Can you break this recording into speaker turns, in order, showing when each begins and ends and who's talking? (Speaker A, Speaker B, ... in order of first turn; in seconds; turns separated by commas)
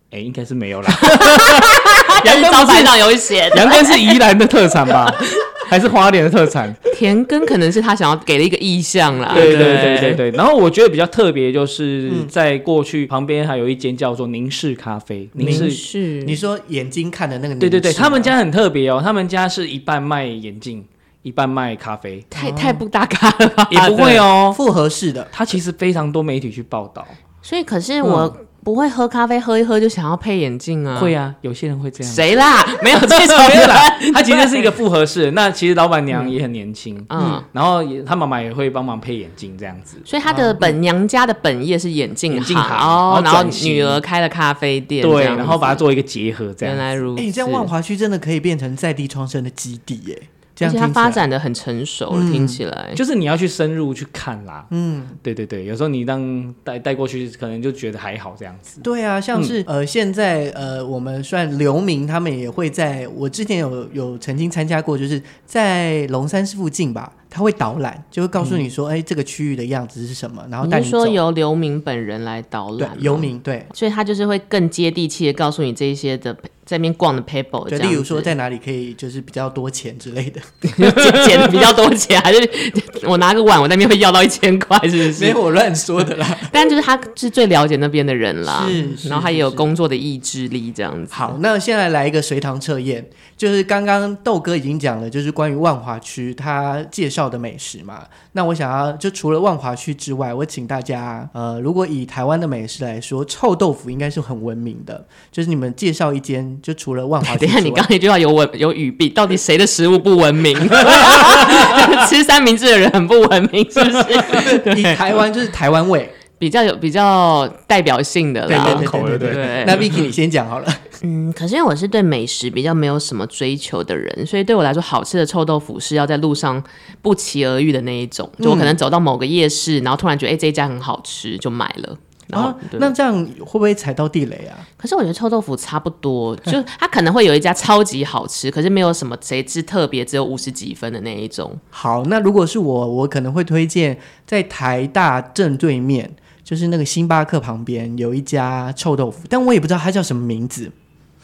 Speaker A: 0.1-6.8, Speaker B: 0.9-4.2, Speaker B: 6.9-10.2, Speaker A: 9.3-15.8, Speaker C: 9.4-9.7, Speaker C: 15.3-18.3, Speaker B: 15.4-16.4, Speaker A: 17.6-22.3, Speaker C: 22.3-22.8, Speaker B: 22.3-24.3, Speaker A: 23.7-24.6, Speaker C: 24.5-25.3, Speaker A: 25.3-27.2, Speaker B: 27.4-31.1, Speaker A: 28.0-28.3, Speaker A: 30.9-40.0, Speaker B: 32.0-34.7, Speaker B: 37.1-37.5, Speaker C: 37.2-37.4, Speaker B: 40.1-45.8, Speaker C: 40.3-40.8, Speaker A: 42.3-44.0, Speaker A: 45.0-46.9, Speaker B: 46.6-47.7, Speaker C: 47.2-51.2, Speaker B: 50.6-53.0, Speaker C: 52.1-52.6, Speaker A: 52.9-54.7, Speaker C: 54.7-55.2, Speaker A: 55.2-58.8, Speaker C: 58.8-71.2, Speaker B: 70.6-78.3, Speaker C: 72.8-73.7, Speaker C: 77.7-80.4, Speaker B: 80.6-85.4, Speaker A: 80.8-81.6, Speaker C: 85.2-86.5, Speaker B: 86.5-91.4, Speaker C: 88.5-89.7, Speaker C: 91.1-107.9, Speaker B: 107.2-115.2, Speaker A: 110.7-112.1, Speaker A: 113.9-114.2, Speaker C: 114.2-116.1, Speaker B: 116.4-120.0, Speaker A: 118.5-120.1, Speaker C: 118.5-120.8, Speaker B: 121.0-132.9, Speaker C: 128.4-128.8, Speaker C: 132.3-134.7, Speaker B: 134.8-141.6, Speaker C: 141.7-150.7